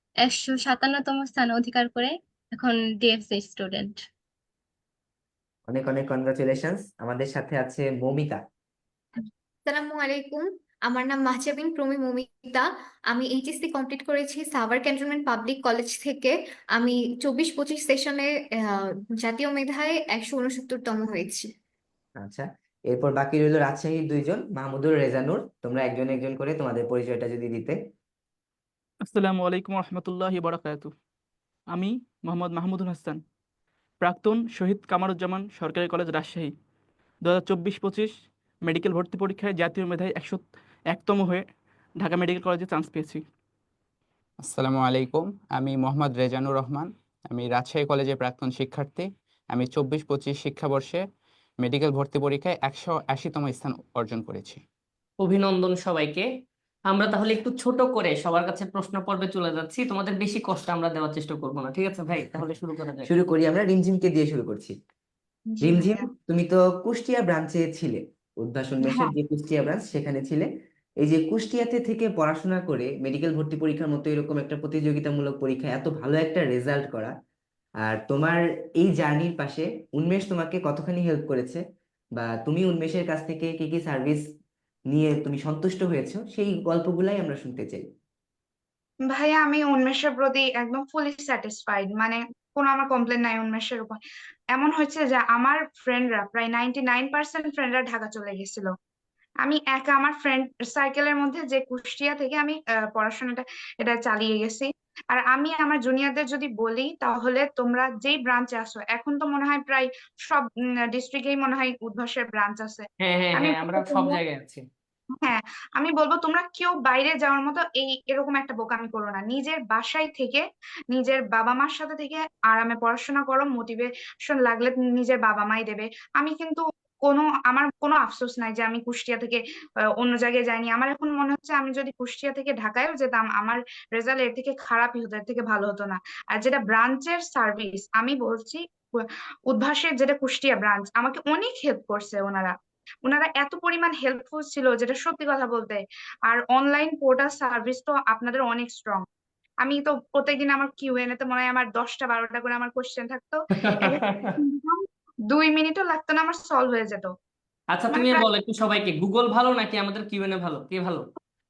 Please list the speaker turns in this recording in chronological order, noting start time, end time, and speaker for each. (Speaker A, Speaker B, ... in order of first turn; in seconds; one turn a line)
Speaker A: 0.2-4.0
Speaker B: 5.7-8.4
Speaker C: 9.2-21.5
Speaker B: 22.2-27.8
Speaker D: 29.1-30.9
Speaker D: 31.7-33.2
Speaker D: 34.0-36.5
Speaker D: 37.2-38.1
Speaker D: 38.7-41.4
Speaker D: 42.0-43.2
Speaker E: 44.4-51.0
Speaker E: 51.6-54.6
Speaker F: 55.2-56.3
Speaker F: 56.9-63.1
Speaker B: 62.2-62.5
Speaker B: 63.1-64.8
Speaker G: 65.5-66.0
Speaker B: 65.6-70.5
Speaker G: 68.9-69.1
Speaker B: 71.0-77.1
Speaker B: 77.8-81.6
Speaker B: 82.2-84.2
Speaker B: 84.9-87.8
Speaker G: 89.1-94.0
Speaker G: 94.5-98.7
Speaker G: 99.4-114.2
Speaker F: 113.0-114.6
Speaker G: 115.2-129.4
Speaker G: 130.0-138.6
Speaker G: 139.5-149.1
Speaker G: 149.6-157.1
Speaker F: 153.6-154.4
Speaker F: 157.7-161.1
Speaker G: 157.9-158.3